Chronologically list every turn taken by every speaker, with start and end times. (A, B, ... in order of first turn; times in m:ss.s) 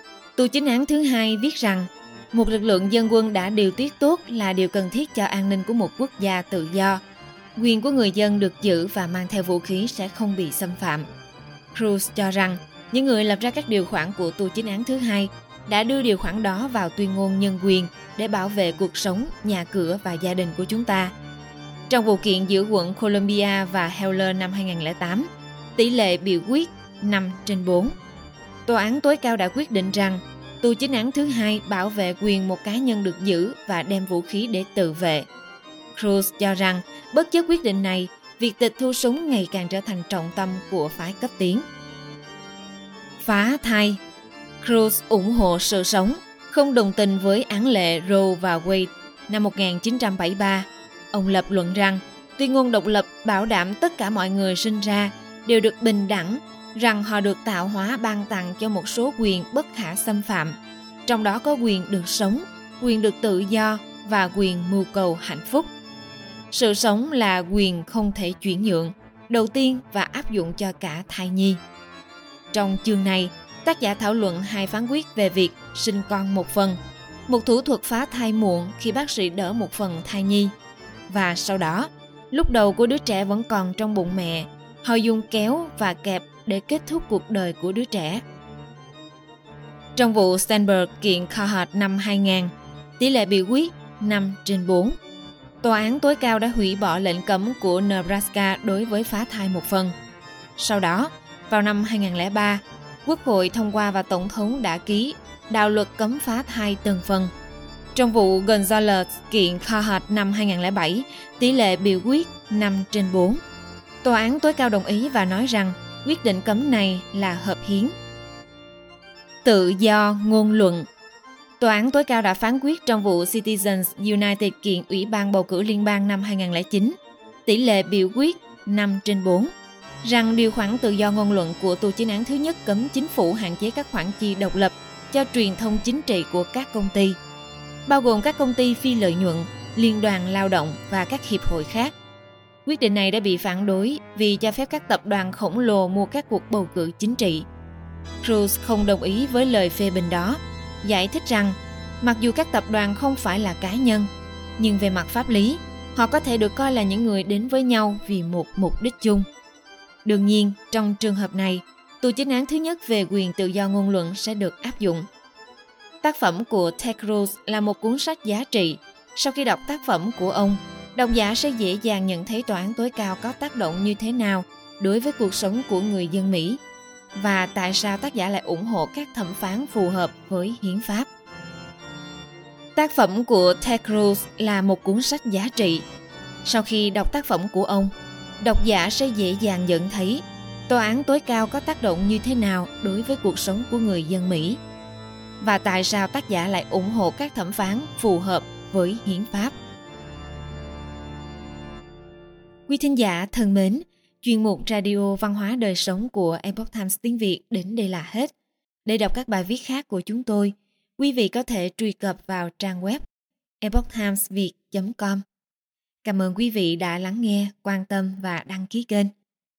0:00.4-0:07.0 A
0:07.6-0:11.1 A
0:11.7-0:21.1 A
0:21.9-0:27.9 A
0:28.6-0:35.3 A
0:35.9-0:41.6 A
0:43.2-0:44.0 A
0:44.6-1:05.7 A
1:06.5-1:11.6 A
1:12.5-1:20.5 A
1:21.1-1:28.2 A
1:30.0-1:35.0 A
1:35.6-1:39.9 A
1:40.6-1:47.3 A
1:47.9-1:53.4 A
1:54.0-1:57.9 A
1:59.4-2:00.9 A
2:01.6-2:09.5 A
2:10.0-2:17.2 A
2:17.8-2:21.9 A
2:22.6-2:27.4 A
2:28.2-2:39.3 A
2:40.0-2:45.1 A
2:46.0-2:56.6 A
2:57.1-3:01.1 A
3:02.8-3:05.8 A
3:06.4-3:14.6 A
3:15.4-3:19.5 A
3:22.7-3:28.3 A
3:28.8-3:33.0 A
3:33.6-3:35.2 A
3:36.0-3:39.1 A